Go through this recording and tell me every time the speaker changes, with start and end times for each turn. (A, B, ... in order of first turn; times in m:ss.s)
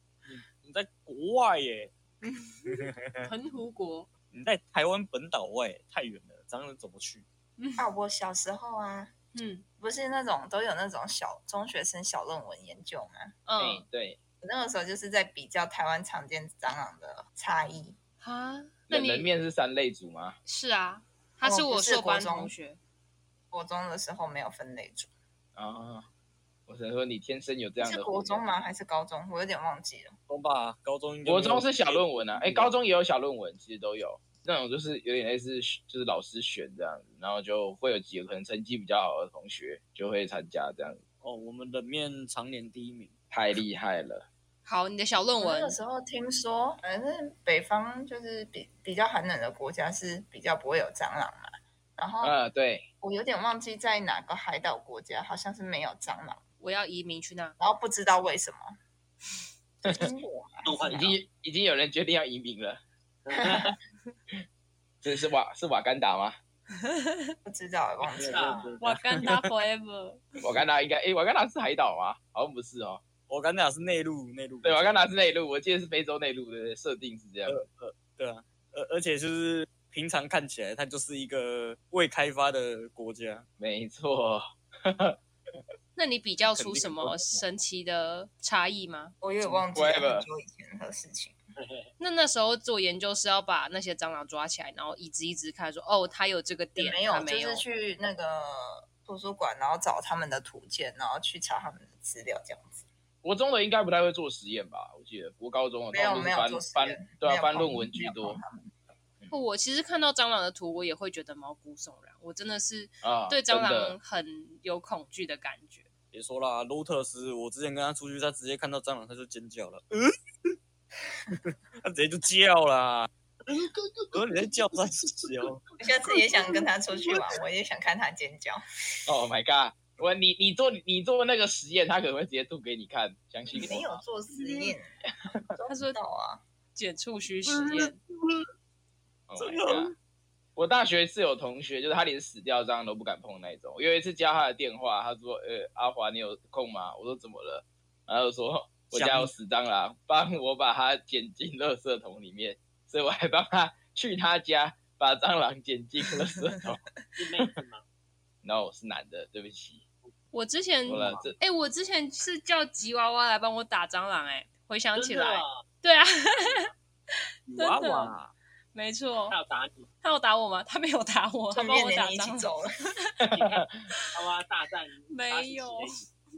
0:00.2-0:01.9 A
0:02.2-0:04.1 B
0:02.7-0:03.3 A
0:04.3-0:07.2 A
0:07.6-0:07.9 B
0:07.8-0:09.1 C
0:09.3-0:09.6 B
0:09.8-0:13.4 C
0:13.5-0:13.8 B
0:13.6-0:14.2 D
0:14.4-0:18.0 C
0:18.2-0:19.3 B
0:18.9-0:20.4 D
0:20.5-0:22.8 B
0:21.4-0:22.5 C
0:23.5-0:25.1 C
0:25.6-0:26.1 D
0:26.7-0:28.5 D
0:27.8-0:30.2 C
0:30.3-0:32.8 A
0:31.2-0:41.0 D
0:41.2-0:43.1 A
0:43.3-0:44.3 D
0:44.7-0:45.8 B
0:45.4-0:52.4 C
0:52.2-0:52.9 D
0:53.0-0:56.4 C
0:56.6-0:57.6 B
0:57.6-0:58.7 C
0:59.8-1:01.0 C
1:00.6-1:01.2 E
1:00.9-1:02.8 D
1:03.2-1:03.8 E
1:03.4-1:03.7 C
1:05.0-1:06.4 D
1:06.8-1:07.3 B
1:07.4-1:08.7 C
1:08.1-1:08.8 E
1:08.2-1:09.3 A
1:08.8-1:10.2 B
1:10.4-1:13.0 D
1:13.3-1:15.0 A
1:14.6-1:17.6 D
1:17.5-1:23.4 A
1:23.6-1:25.2 D
1:26.0-1:29.2 B
1:26.5-1:27.4 A
1:29.2-1:31.4 C
1:29.7-1:30.3 D
1:31.6-1:31.9 E
1:32.0-1:37.6 B
1:36.8-1:42.8 C
1:43.2-1:48.4 D
1:45.9-1:48.7 C
1:49.3-1:55.9 B
1:53.0-1:54.0 D
1:56.1-2:00.5 A
2:01.3-2:03.1 A
2:03.5-2:04.5 E
2:04.1-2:05.6 A
2:05.8-2:08.6 C
2:09.1-2:14.0 D
2:13.5-2:15.0 C
2:15.5-2:16.4 C
2:15.7-2:16.0 B
2:16.8-2:18.0 B
2:17.5-2:18.5 A
2:19.3-2:19.9 D
2:19.4-2:20.0 A
2:20.6-2:36.8 D
2:28.9-2:29.3 A
2:37.2-2:37.8 E
2:38.4-2:39.8 D
2:40.3-2:46.7 B
2:40.9-2:41.4 D
2:45.0-2:45.6 E
2:47.5-2:48.3 A
2:47.6-2:48.2 B
2:48.7-2:49.4 B
2:49.3-2:49.9 E
2:50.0-2:52.5 B
2:51.5-2:52.7 C
2:53.3-2:56.1 E
2:53.3-2:53.8 D
2:55.1-2:55.9 B